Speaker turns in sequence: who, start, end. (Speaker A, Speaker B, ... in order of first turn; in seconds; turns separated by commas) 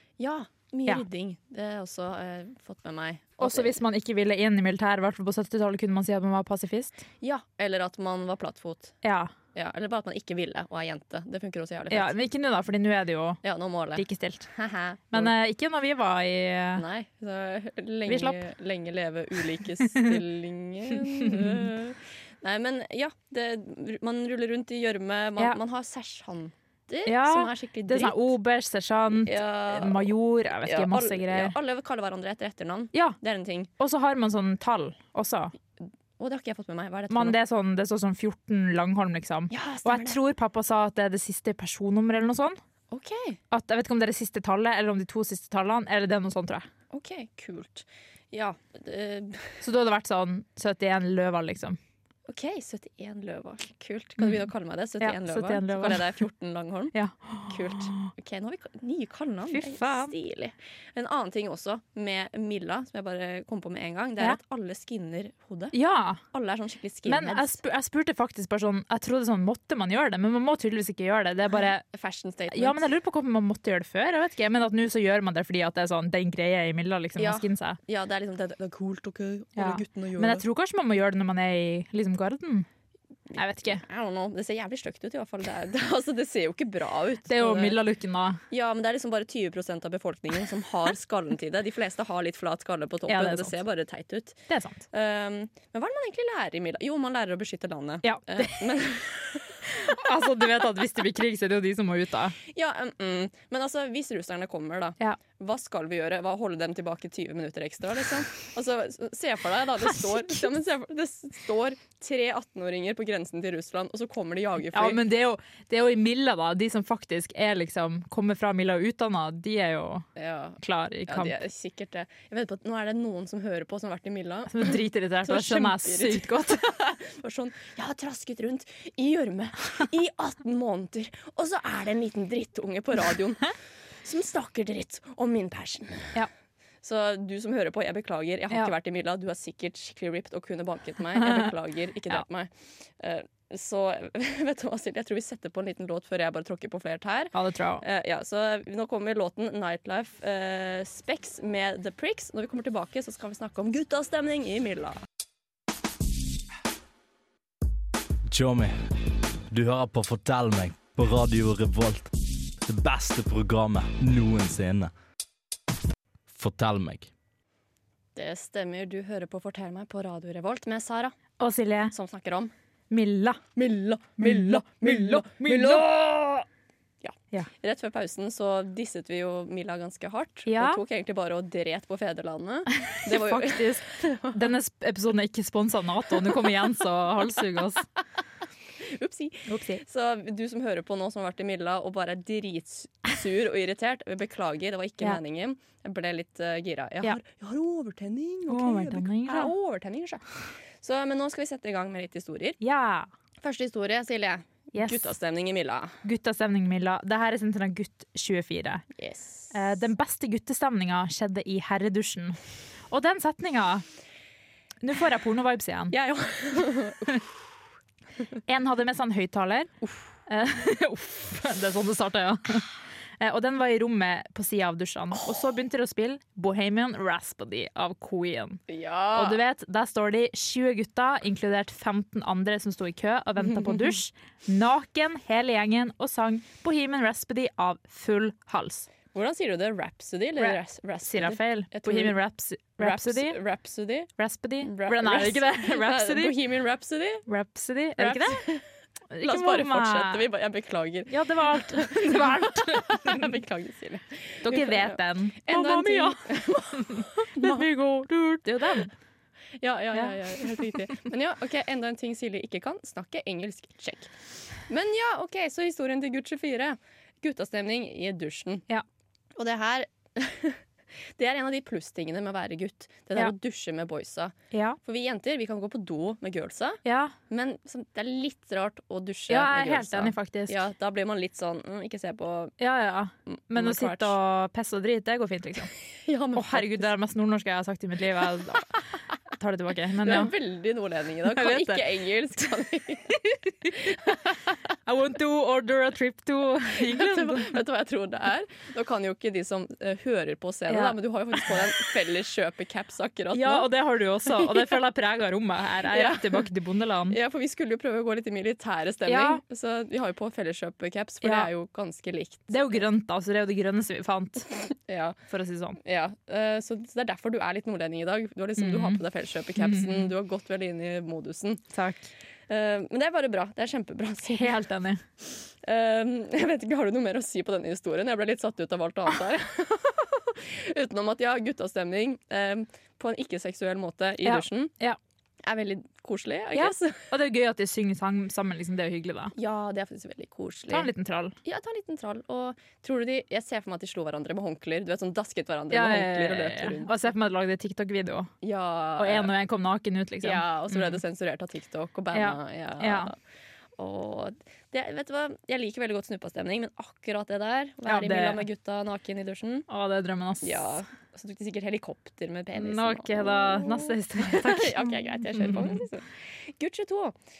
Speaker A: 0.2-3.8, Speaker B: 3.4-7.0, Speaker A: 7.2-8.9, Speaker B: 9.0-9.3, Speaker A: 9.5-12.1, Speaker B: 11.9-13.4, Speaker A: 13.4-15.3, Speaker B: 13.9-14.5, Speaker B: 15.1-16.8, Speaker A: 16.8-28.3, Speaker B: 18.1-18.4, Speaker B: 21.3-21.7, Speaker B: 27.1-31.6, Speaker A: 29.2-33.7, Speaker B: 32.9-33.2, Speaker B: 33.8-35.5, Speaker A: 35.8-37.4, Speaker B: 37.1-42.6, Speaker A: 39.5-40.2, Speaker A: 42.9-43.4, Speaker B: 43.5-46.7, Speaker A: 46.9-49.6, Speaker B: 49.6-51.8, Speaker A: 52.3-56.9, Speaker B: 54.2-54.5, Speaker B: 55.0-56.2, Speaker B: 56.9-58.1, Speaker A: 57.5-65.8, Speaker B: 59.5-60.1, Speaker B: 65.7-66.2, Speaker A: 66.3-67.6, Speaker B: 67.0-71.8, Speaker A: 71.5-72.8, Speaker B: 72.5-77.8, Speaker A: 77.2-80.4, Speaker B: 79.6-82.7, Speaker A: 83.3-87.8, Speaker B: 83.3-83.8, Speaker B: 87.3-88.4, Speaker A: 88.5-94.4, Speaker B: 93.1-93.6, Speaker B: 94.5-94.8, Speaker A: 94.9-99.6, Speaker B: 98.0-98.6, Speaker B: 99.7-102.3, Speaker A: 102.5-115.0, Speaker B: 114.7-120.0, Speaker A: 120.2-136.2, Speaker B: 120.6-121.3, Speaker B: 124.5-126.7, Speaker A: 136.8-155.0, Speaker B: 147.3-147.8, Speaker C: 158.3-158.9, Speaker C: 159.5-162.1, Speaker C: 162.6-164.9, Speaker C: 166.3-167.1, Speaker A: 168.1-171.1, Speaker B: 171.4-171.9, Speaker A: 171.9-172.5, Speaker B: 172.9-173.4, Speaker A: 173.6-176.4, Speaker B: 174.2-175.9, Speaker A: 177.0-184.5, Speaker B: 180.5-180.8, Speaker B: 182.8-187.8, Speaker A: 188.8-200.2, Speaker B: 189.5-189.8, Speaker B: 198.5-199.5, Speaker A: 200.8-202.6, Speaker B: 202.6-203.1, Speaker A: 203.4-205.9, Speaker B: 204.7-205.1, Speaker B: 206.0-208.8, Speaker A: 208.9-209.8, Speaker B: 209.5-212.4, Speaker B: 212.9-213.8, Speaker B: 214.8-215.9, Speaker A: 215.9-217.2, Speaker B: 218.5-219.7, Speaker B: 220.3-228.6, Speaker A: 228.7-229.4, Speaker B: 229.1-238.9, Speaker A: 233.4-233.9, Speaker A: 239.1-242.2, Speaker B: 240.4-243.4, Speaker A: 242.8-244.1, Speaker B: 244.2-246.4, Speaker A: 244.6-247.2, Speaker B: 247.3-248.4, Speaker A: 248.0-248.7, Speaker B: 249.1-250.2, Speaker A: 249.2-257.6, Speaker B: 251.1-253.3, Speaker B: 254.4-256.2, Speaker B: 256.8-258.9, Speaker A: 259.6-264.1, Speaker B: 259.9-260.8, Speaker A: 264.7-268.6, Speaker A: 269.4-270.6, Speaker A: 271.2-282.6, Speaker B: 274.5-274.8, Speaker B: 276.8-277.1, Speaker B: 279.3-280.6, Speaker B: 282.6-285.7, Speaker A: 283.3-284.1, Speaker A: 286.0-286.9, Speaker B: 286.4-288.8, Speaker B: 289.4-290.3, Speaker A: 290.0-293.2, Speaker B: 291.3-291.8, Speaker B: 293.6-294.1, Speaker B: 294.9-297.6, Speaker A: 296.7-303.7, Speaker B: 300.7-300.9, Speaker B: 303.3-307.2, Speaker A: 305.9-306.5, Speaker A: 307.1-312.8, Speaker B: 309.1-309.4, Speaker B: 311.2-311.5, Speaker B: 312.5-314.5, Speaker A: 314.9-315.2, Speaker B: 315.3-315.8, Speaker A: 315.8-321.6, Speaker B: 318.6-319.0, Speaker B: 319.6-320.1, Speaker B: 321.7-322.0, Speaker A: 322.5-324.5, Speaker B: 324.3-325.0, Speaker A: 325.6-334.7, Speaker B: 334.2-335.0, Speaker A: 335.4-337.1, Speaker B: 336.5-339.3, Speaker A: 339.3-340.9, Speaker B: 340.7-341.3, Speaker A: 341.4-346.9, Speaker B: 345.7-348.3, Speaker A: 348.4-349.3, Speaker B: 349.0-351.0, Speaker A: 350.2-353.1, Speaker B: 352.1-353.1, Speaker A: 353.8-359.7, Speaker B: 357.9-358.4, Speaker B: 359.7-360.7, Speaker A: 360.4-367.1, Speaker B: 362.6-365.8